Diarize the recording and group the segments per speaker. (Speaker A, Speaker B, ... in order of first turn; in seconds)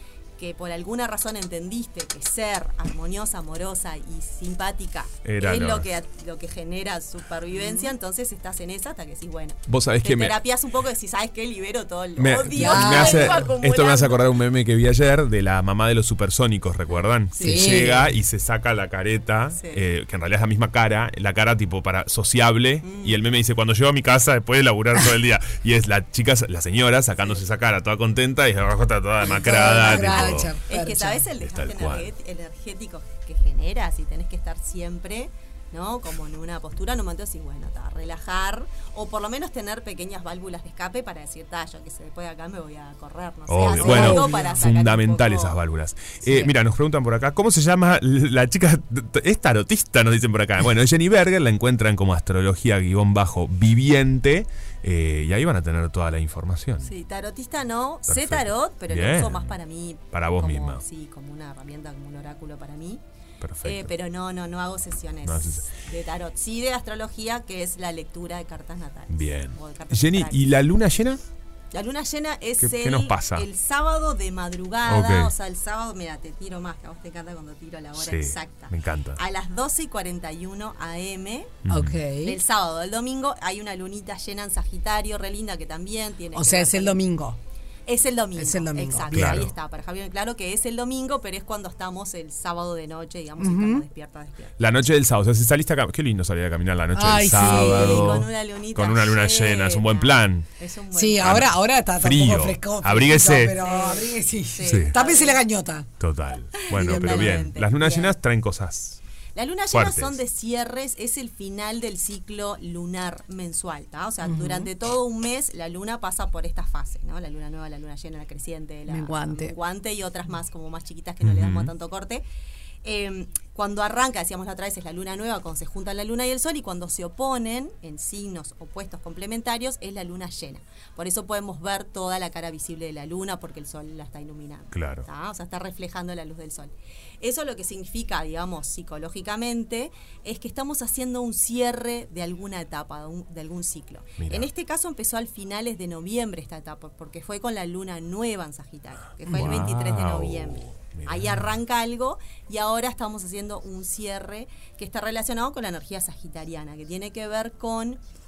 Speaker A: 0.4-14.3, 17.3-17.9, 19.6-19.8, 22.8-23.2, 29.7-45.6, 56.8-63.0, 63.6-70.4, 71.7-81.6, 82.2-87.0, 87.9-94.5, 97.3-101.5, 103.5-105.4, 106.5-108.2, 109.3-122.2, 122.8-158.0
Speaker B: 5.2-5.9, 9.7-10.4, 12.2-30.5, 31.4-32.1, 43.5-56.9, 58.1-59.6, 60.1-60.8, 63.4-63.9, 65.2-65.7, 69.1-71.2, 72.6-73.5, 74.9-75.3, 78.0-79.2, 81.7-82.0, 89.1-89.5, 94.6-100.5, 101.2-103.5, 104.7-105.0, 106.0-109.0, 109.7-110.2, 121.2-121.7, 134.7-135.1, 144.2-144.5, 149.3-151.5
Speaker C: 7.5-7.9, 12.5-13.5, 17.4-18.1, 29.3-31.2, 43.8-44.6, 46.2-46.5, 81.7-82.4, 86.3-87.4, 88.4-89.5, 93.4-93.8, 96.9-98.2, 100.9-105.9, 106.7-107.4, 114.2-114.7, 118.9-119.6, 149.3-149.7